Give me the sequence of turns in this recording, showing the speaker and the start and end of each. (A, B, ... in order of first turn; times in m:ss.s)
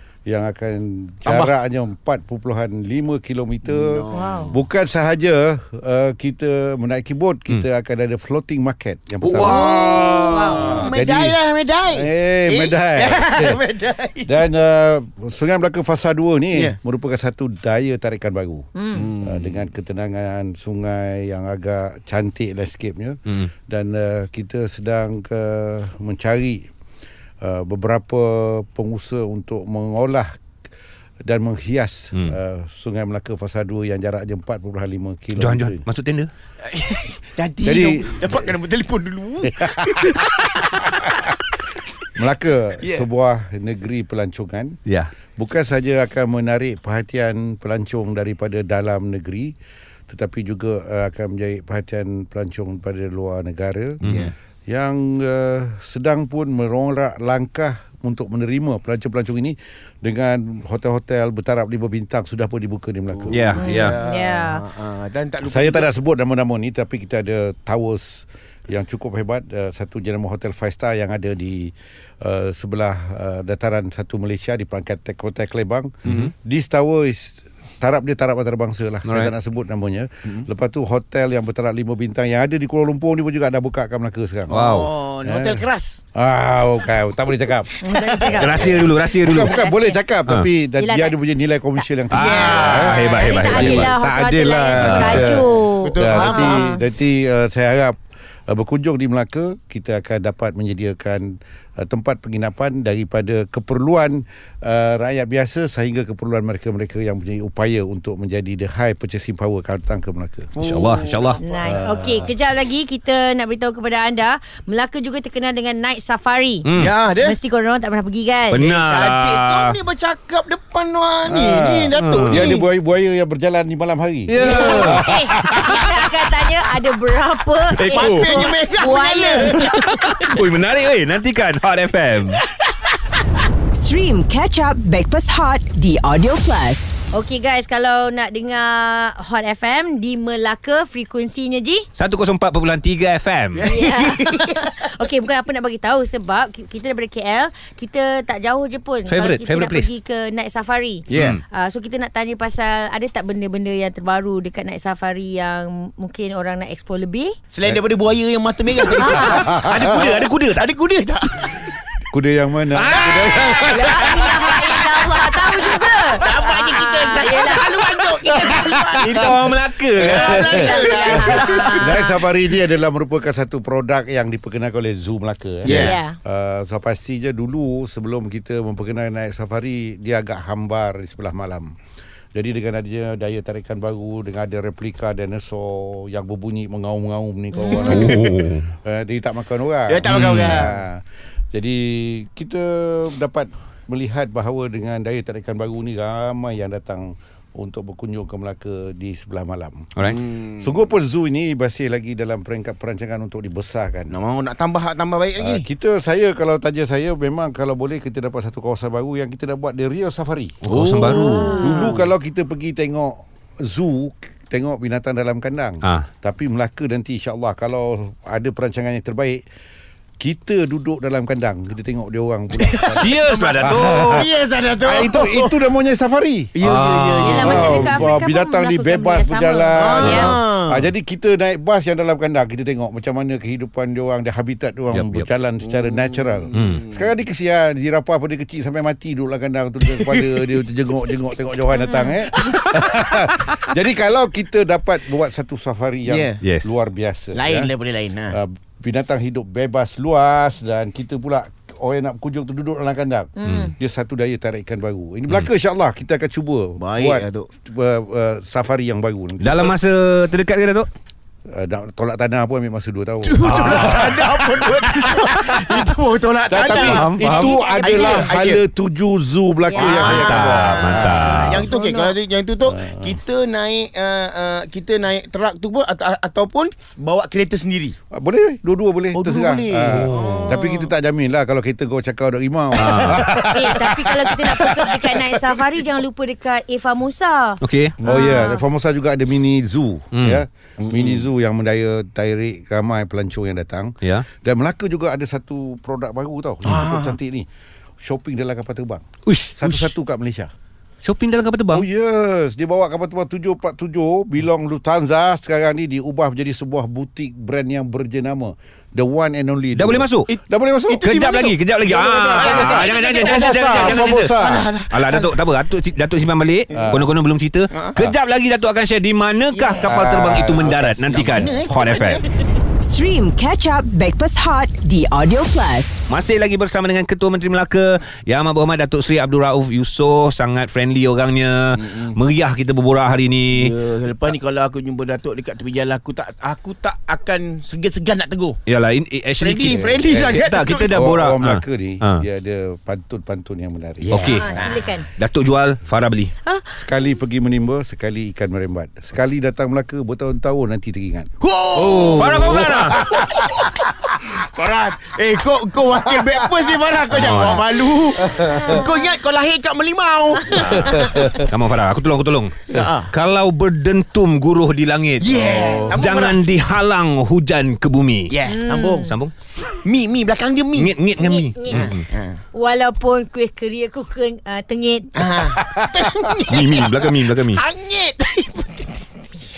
0:00.3-0:09.6 A
0:01.2-0:01.5 B
0:03.6-0:04.6 B
0:04.1-0:04.5 C
0:09.2-0:10.9 D
0:09.3-0:14.4 B
0:09.6-0:10.6 C
0:10.5-0:11.4 A
0:11.9-0:13.6 A
0:14.2-0:18.7 A
0:18.8-0:19.1 C
0:18.9-0:19.7 B
0:19.2-0:26.7 A
0:27.4-0:30.3 A
0:31.2-0:35.8 A
0:35.4-0:36.3 D
0:36.6-0:41.4 B
0:37.6-0:38.6 A
0:39.4-0:41.3 A
0:42.1-0:44.8 A
0:42.8-0:43.1 B
0:44.8-0:45.1 D
0:45.4-0:49.5 A
0:50.1-0:54.0 A
0:54.0-0:54.3 D
0:54.0-0:54.3 B
0:54.7-1:03.6 A
1:03.1-1:05.9 B
1:03.3-1:04.0 D
1:03.6-1:04.6 C
1:05.4-1:25.6 A
1:16.0-1:16.3 D
1:16.0-1:16.3 B
1:19.0-1:19.3 D
1:24.5-1:26.0 B
1:24.5-1:24.9 D
1:26.1-1:38.0 A
1:27.8-1:30.0 C
1:27.9-1:28.8 B
1:28.4-1:29.6 D
1:30.8-1:31.2 C
1:32.1-1:33.4 B
1:32.1-1:33.9 D
1:33.0-1:36.8 C
1:34.8-1:35.4 D
1:35.2-1:36.7 B
1:38.5-1:50.5 A
1:50.5-1:52.0 B
1:50.6-1:51.4 D
1:51.4-1:58.6 C
1:51.6-1:52.3 A
1:56.6-1:56.9 D
1:56.7-1:57.4 B
1:58.5-1:59.8 D
1:58.6-2:02.7 B
2:01.2-2:05.8 A
2:01.9-2:02.5 D
2:04.3-2:05.0 D
2:04.4-2:06.2 B
2:05.2-2:10.4 C
2:07.7-2:08.5 D
2:07.9-2:10.2 B
2:09.7-2:12.4 D
2:12.7-2:12.9 B
2:13.7-2:17.0 E
2:17.1-2:21.8 C
2:22.0-2:23.6 D
2:23.5-2:24.8 B
2:23.6-2:37.4 C
2:29.1-2:29.9 D
2:31.1-2:31.4 B
2:31.1-2:31.4 D
2:37.5-2:41.8 B
2:39.0-2:39.2 C
2:39.0-2:40.6 D
2:39.3-2:40.0 A
2:42.1-2:44.3 A
2:42.8-2:43.3 D
2:42.9-2:52.0 B
2:43.7-2:48.1 C
2:49.0-2:51.8 D
2:50.0-3:01.7 A
2:50.6-2:52.2 C
2:55.6-2:56.0 B
2:55.8-2:56.1 C
3:02.3-3:11.0 A
3:07.6-3:08.0 C
3:07.7-3:08.7 D
3:09.9-3:10.8 B
3:10.1-3:10.6 D
3:11.5-3:19.9 A
3:20.0-3:20.8 B
3:20.6-3:24.1 A
3:24.1-3:25.6 B
3:25.4-3:30.6 A
3:30.6-3:31.6 D
3:30.6-3:32.1 B
3:31.2-3:32.0 C
3:31.6-3:39.4 A
3:40.2-3:44.3 A
3:42.6-3:45.6 B
3:43.0-3:44.3 D
3:44.8-3:46.5 A
3:46.5-3:48.1 B
3:46.6-3:48.0 D
3:47.2-3:50.3 C
3:47.4-4:07.7 A
3:49.7-3:50.9 B
3:50.0-3:50.3 D
3:54.9-3:55.3 D
3:55.6-3:57.1 B
3:56.5-3:56.8 D
3:59.8-4:00.6 B
4:01.8-4:02.2 C
4:02.3-4:03.6 B
4:06.0-4:06.4 B
4:06.4-4:06.8 D
4:07.3-4:08.4 B
4:08.3-4:19.7 A
4:13.4-4:13.7 C
4:13.4-4:13.7 D
4:16.8-4:17.5 B
4:19.4-4:20.9 D
4:21.5-4:25.9 A
4:23.2-4:28.6 B
4:23.4-4:24.1 D
4:26.5-4:31.7 A
4:26.6-4:27.6 D
4:27.7-4:28.1 C
4:29.7-4:32.2 C
4:29.7-4:38.0 B
4:30.1-4:31.6 D
4:32.6-4:33.2 A
4:38.1-4:45.4 A
4:39.1-4:40.9 B
4:39.9-4:40.5 D
4:42.8-4:43.2 D
4:43.4-4:48.6 C
4:47.6-4:48.0 D
4:48.0-4:57.5 A
4:50.1-4:50.4 D
4:50.8-4:51.3 B
4:56.6-4:57.2 B
4:58.0-4:59.0 A
4:59.2-4:59.8 D
4:59.6-5:00.5 A
5:01.0-5:01.8 D
5:01.7-5:11.0 A
5:09.7-5:10.3 D
5:10.3-5:15.4 B
5:11.0-5:22.2 D
5:11.9-5:14.7 A
5:16.7-5:17.1 A
5:19.5-5:22.5 B
5:19.8-5:20.9 A
5:22.8-5:26.0 E
5:26.1-5:33.7 D
5:31.7-5:32.2 B
5:33.5-5:38.6 B
5:38.6-5:42.2 D
5:39.4-5:40.9 B
5:39.6-5:44.3 A
5:44.0-5:44.9 B
5:44.1-5:46.3 D
5:44.3-5:45.1 C
5:46.7-5:53.7 A
5:51.4-6:00.6 B
5:52.1-5:53.0 D
5:55.9-5:56.4 A
5:57.1-5:57.6 D
5:58.2-5:58.8 A
6:00.5-6:01.5 A
6:00.5-6:08.4 D
6:00.8-6:01.2 C
6:02.7-6:03.1 B
6:05.2-6:06.4 B
6:05.4-6:05.9 A
6:08.3-6:09.1 B
6:08.4-6:09.1 C
6:09.0-6:09.3 D
6:09.7-6:10.9 B
6:10.8-6:12.0 D
6:11.2-6:11.8 C
6:11.7-6:12.4 B
6:12.5-6:15.3 C
6:15.1-6:19.1 B
6:15.6-6:15.9 A
6:16.5-6:17.6 D